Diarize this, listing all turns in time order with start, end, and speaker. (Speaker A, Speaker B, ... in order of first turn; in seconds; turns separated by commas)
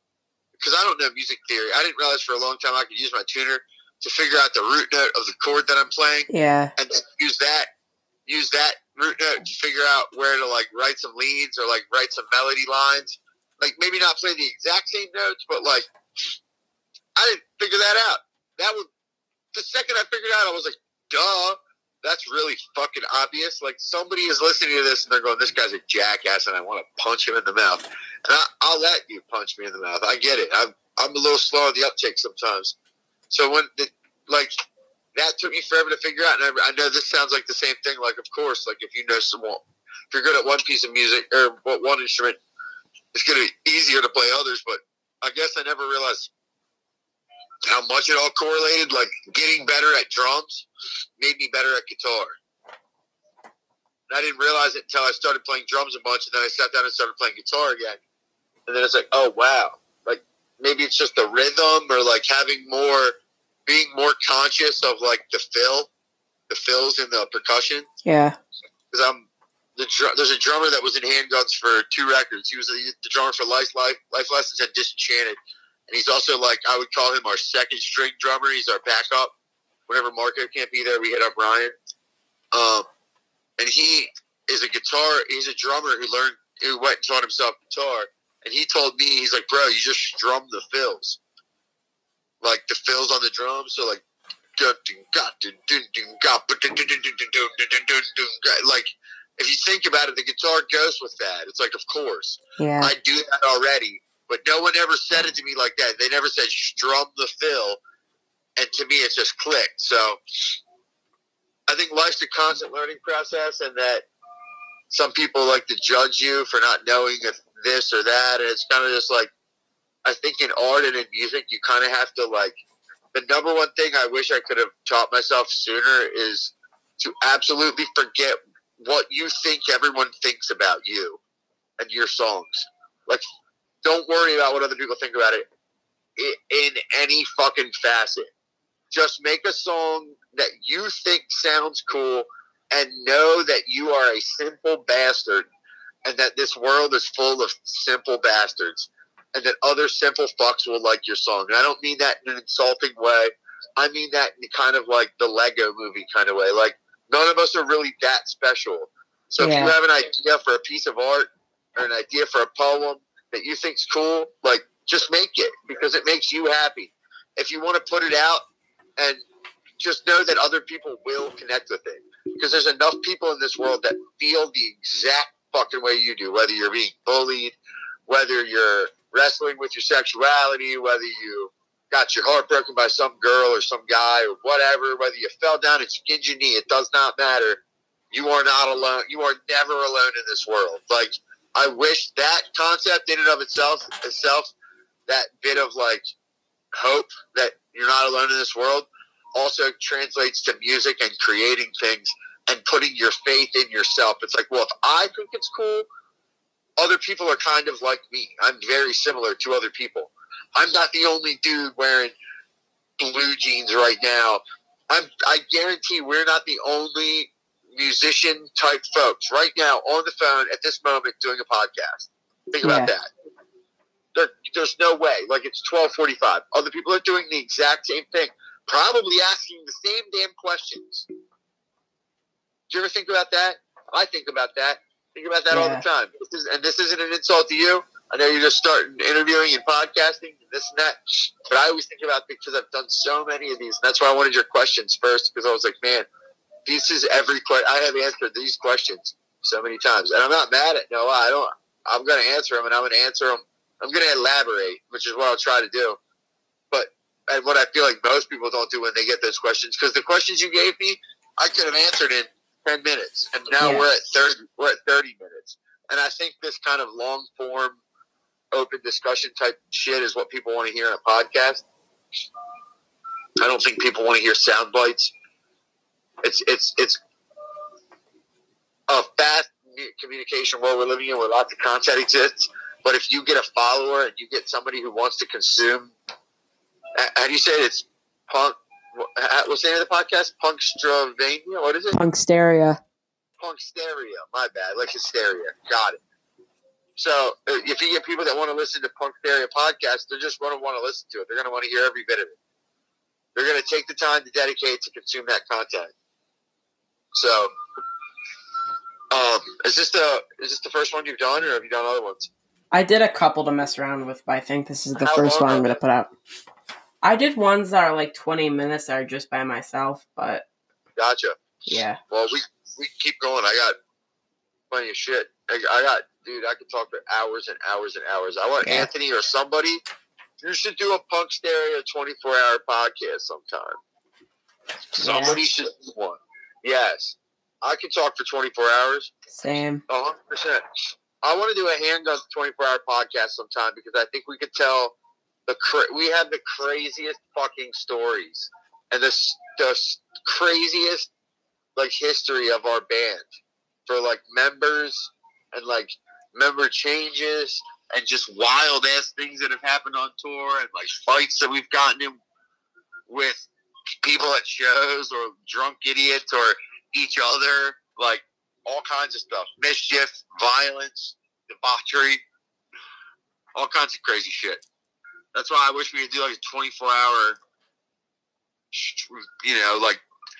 Speaker A: 0.6-7.7, Speaker B: 6.3-6.7, Speaker A: 8.2-15.9, Speaker A: 17.1-18.9, Speaker A: 19.5-32.7, Speaker A: 33.3-34.5, Speaker A: 35.1-42.4, Speaker A: 43.1-46.3, Speaker A: 47.6-50.7, Speaker A: 51.2-52.4, Speaker A: 54.1-58.0, Speaker A: 58.7-65.9, Speaker A: 66.5-67.8, Speaker B: 68.0-68.3, Speaker A: 68.9-75.4, Speaker A: 75.9-79.3, Speaker A: 79.9-81.7, Speaker A: 82.5-82.9, Speaker A: 83.6-91.2, Speaker A: 92.4-94.0, Speaker A: 94.6-107.8, Speaker B: 102.6-102.9, Speaker A: 108.6-110.5, Speaker A: 111.7-114.0, Speaker A: 114.9-119.3, Speaker A: 120.0-122.6, Speaker A: 123.1-131.2, Speaker A: 131.8-133.2, Speaker A: 133.8-135.5, Speaker A: 136.2-138.3, Speaker A: 138.9-145.4, Speaker A: 146.0-168.4, Speaker B: 159.4-159.7, Speaker A: 169.8-177.6, Speaker A: 178.1-194.5, Speaker A: 195.1-196.0, Speaker A: 196.7-205.8, Speaker A: 206.8-212.1, Speaker A: 213.0-223.1, Speaker B: 222.6-222.9, Speaker A: 224.1-231.1, Speaker A: 232.7-246.1, Speaker B: 235.5-235.8, Speaker A: 246.7-256.0, Speaker A: 256.7-267.8, Speaker B: 263.6-263.9, Speaker A: 268.5-271.6, Speaker A: 273.4-275.1, Speaker A: 276.2-277.0, Speaker A: 278.9-285.9, Speaker A: 286.9-292.0, Speaker B: 291.9-292.8, Speaker A: 293.4-296.0, Speaker A: 297.0-302.4, Speaker A: 303.3-305.9, Speaker A: 307.1-307.5, Speaker A: 309.1-312.3, Speaker B: 312.7-316.1, Speaker A: 315.0-315.8, Speaker B: 317.0-320.4, Speaker A: 321.0-321.4, Speaker B: 321.7-322.0, Speaker A: 322.1-323.8, Speaker A: 324.7-329.8, Speaker B: 328.6-328.9, Speaker A: 330.4-333.8, Speaker A: 334.9-339.1, Speaker B: 335.0-335.4, Speaker B: 339.3-339.8, Speaker A: 339.9-340.6, Speaker A: 341.2-344.9, Speaker A: 345.5-351.1, Speaker A: 351.8-353.3, Speaker A: 353.9-362.2, Speaker A: 363.1-363.5, Speaker A: 364.0-372.2, Speaker A: 373.6-374.6, Speaker A: 375.3-377.4, Speaker A: 378.7-380.0